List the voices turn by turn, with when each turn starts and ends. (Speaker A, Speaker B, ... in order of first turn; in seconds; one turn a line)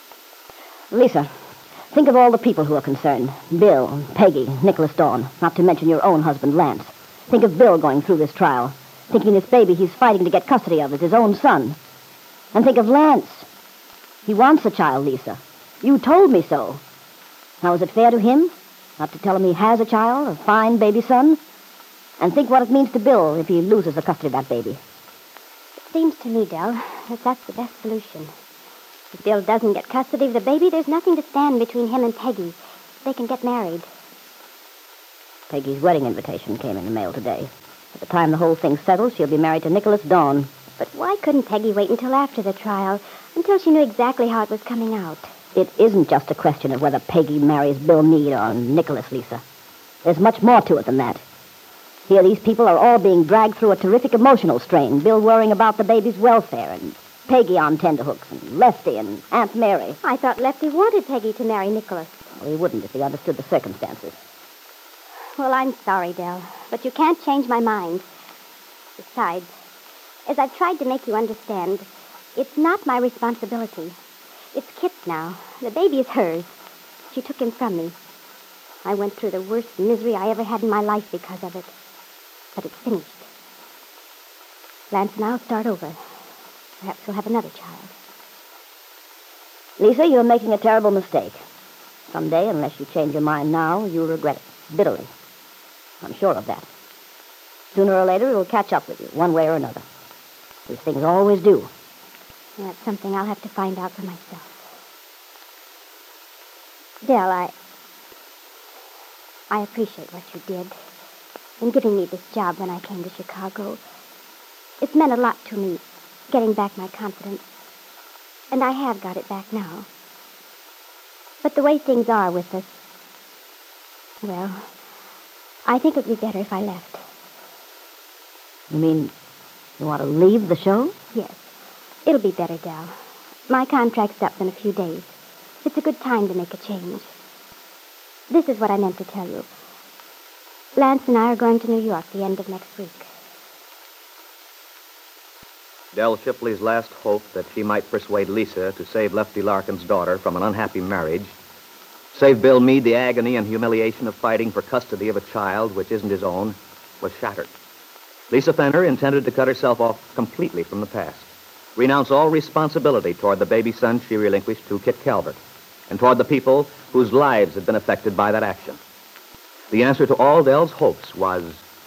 Speaker A: 0.9-1.3
Speaker A: 1.9-11.8
Speaker A: 12.5-13.5
Speaker A: 14.2-16.8
Speaker A: 17.6-21.4
Speaker A: 22.2-24.8
Speaker B: 25.9-28.3
Speaker B: 29.1-33.9
Speaker A: 35.5-40.5
Speaker B: 40.8-45.3
Speaker A: 45.5-49.4
Speaker A: 50.0-51.2
Speaker A: 52.1-60.0
Speaker B: 60.0-62.2
Speaker A: 62.4-64.2
Speaker B: 65.4-68.0
Speaker B: 69.0-69.5
Speaker B: 70.3-73.9
Speaker B: 74.5-76.5
Speaker B: 77.1-78.0
Speaker B: 78.8-81.7
Speaker B: 82.5-83.3
Speaker B: 84.9-86.0
Speaker B: 86.8-87.9
Speaker A: 89.8-91.4
Speaker A: 92.1-95.1
Speaker A: 96.0-96.7
Speaker A: 97.7-99.8
Speaker A: 100.7-101.7
Speaker B: 102.6-104.5
Speaker B: 107.0-107.5
Speaker B: 109.5-110.7
Speaker B: 111.6-113.8
Speaker B: 114.8-117.5
Speaker B: 118.5-119.9
Speaker B: 121.4-122.7
Speaker B: 124.2-124.6
Speaker B: 125.7-127.0
Speaker A: 128.7-129.1
Speaker A: 129.8-130.9
Speaker B: 131.1-131.4
Speaker B: 132.1-132.9
Speaker B: 133.5-137.1
Speaker B: 138.3-139.5
Speaker B: 140.8-143.1
Speaker C: 145.9-151.3
Speaker C: 152.1-157.5
Speaker C: 158.3-165.4
Speaker C: 165.9-168.8
Speaker C: 169.7-171.6